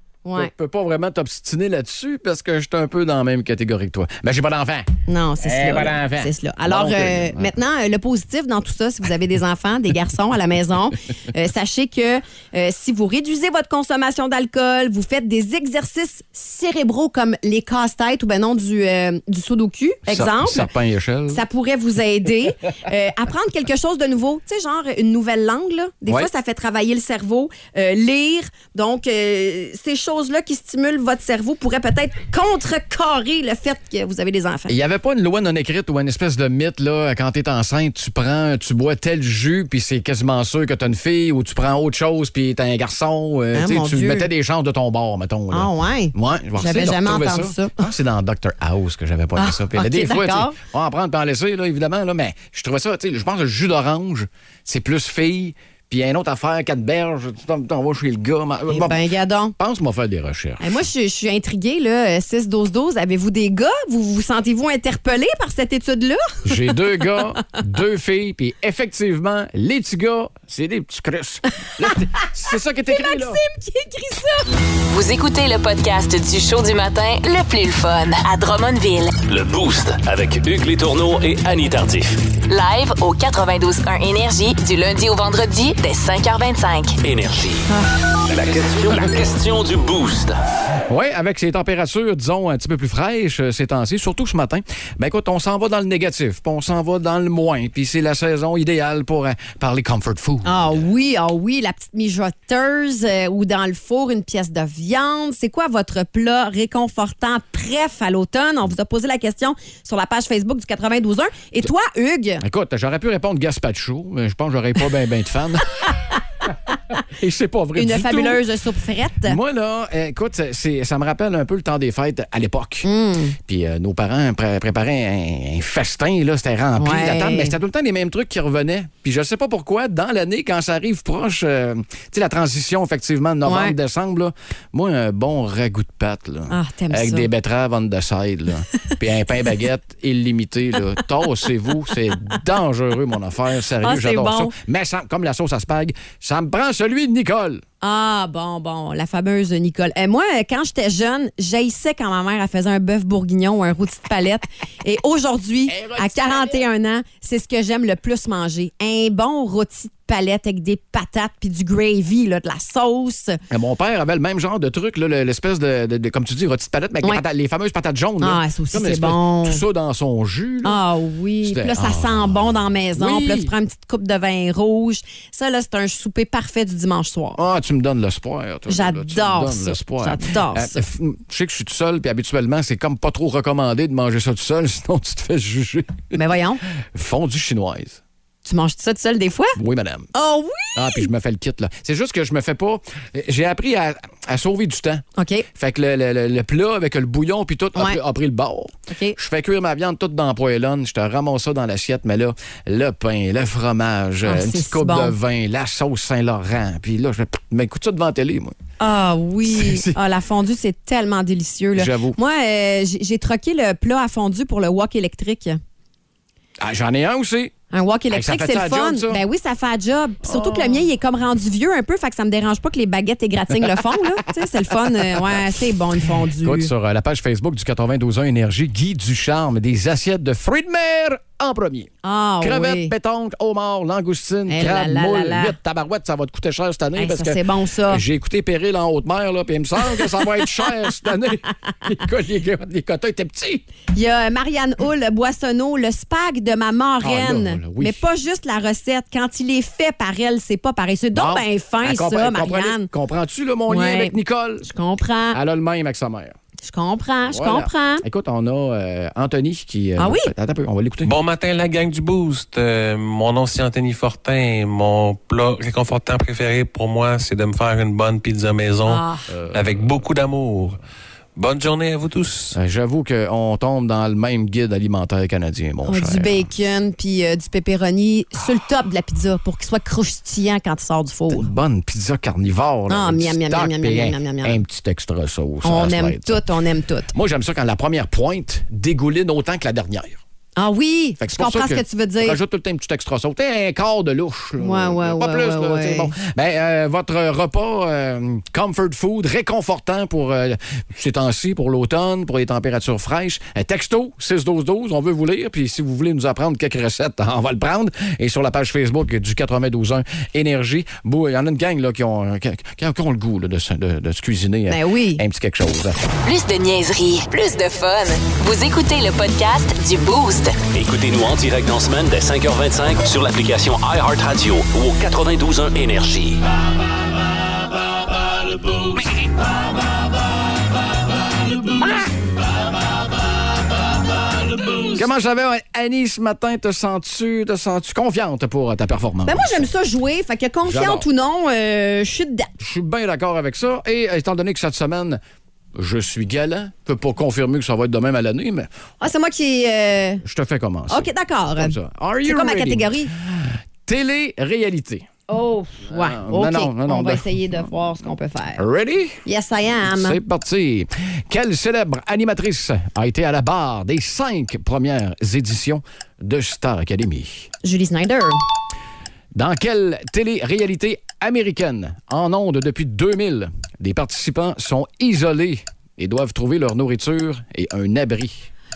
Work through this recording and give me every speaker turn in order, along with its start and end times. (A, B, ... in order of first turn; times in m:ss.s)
0:00.2-0:00.5 A
0:00.4-0:04.9 B
0:05.1-0:20.7 A
0:05.4-0:07.5 B
0:20.1-0:21.4 B
0:21.3-0:34.8 A
0:34.7-0:59.0 B
0:43.5-0:44.3 A
0:45.5-0:47.8 A
0:49.4-0:50.6 A
0:58.7-0:59.5 A
0:59.6-1:00.8 B
1:00.6-1:07.2 A
1:06.4-1:13.4 B
1:12.9-1:14.5 A
1:14.9-1:19.2 C
1:19.2-1:22.2 D
1:22.5-1:27.0 C
1:27.0-1:27.7 D
1:27.7-1:27.9 A
1:28.2-1:30.4 D
1:30.9-1:40.8 B
1:40.4-1:52.4 A
1:52.4-1:55.7 B
1:57.0-1:58.4 B
1:57.8-1:59.4 A
1:59.2-2:27.6 B
2:02.8-2:03.4 A
2:06.8-2:07.5 A
2:13.4-2:13.7 A
2:16.5-2:17.3 A
2:23.8-2:24.5 A
2:27.8-2:43.4 A
2:35.7-2:36.6 B
2:43.5-2:50.8 B
2:48.2-2:49.6 A
2:50.6-2:57.4 A
2:51.4-2:53.5 B
2:57.4-3:06.2 B
2:58.7-3:00.8 A
3:06.1-3:06.6 A
3:06.7-3:08.0 B
3:08.4-3:09.6 A
3:09.6-3:10.1 B
3:10.1-3:11.1 A
3:10.7-3:28.6 B
3:15.2-3:15.5 A
3:18.9-3:19.2 A
3:24.2-3:25.1 A
3:28.8-3:35.6 A
3:29.4-3:30.0 B
3:31.7-3:32.2 B
3:36.6-3:37.5 B
3:37.7-3:46.7 A
3:38.1-3:39.2 B
3:40.2-3:40.8 B
3:45.1-3:45.4 B
3:46.4-4:03.6 B
3:52.0-3:52.9 A
3:54.5-3:55.6 A
3:57.0-3:58.0 A
4:00.0-4:00.3 A
4:03.9-4:12.9 A
4:07.0-4:08.0 B
4:11.1-4:14.7 B
4:13.7-4:15.4 A
4:15.3-4:16.3 B
4:16.6-4:18.0 A
4:17.3-4:21.1 B
4:20.0-4:20.3 A
4:21.0-4:30.8 E
4:28.8-4:29.2 A
4:29.3-4:29.7 B
4:31.4-4:32.6 E
4:32.5-4:36.5 B
4:35.8-4:41.4 A
4:41.3-4:46.4 B
4:42.9-4:44.6 A
4:45.6-4:47.1 A
4:47.1-4:50.2 B
4:50.6-4:52.4 A
4:51.2-5:16.0 B
4:54.6-4:56.1 A
5:14.7-5:15.2 A
5:16.2-5:20.6 C
5:20.7-5:26.4 D
5:31.6-5:32.0 B
5:34.8-5:39.7 B
5:39.2-5:42.5 A
5:40.6-5:41.1 B
5:42.6-5:45.2 B
5:45.7-5:48.7 B
5:49.0-5:50.2 A
5:50.2-5:55.1 B
5:50.9-5:53.1 A
5:55.3-5:58.6 A
5:55.9-5:57.4 B
5:58.6-5:59.2 B
5:59.2-6:00.2 A
5:59.8-6:07.5 B
6:07.6-6:08.4 A
6:09.3-6:18.5 B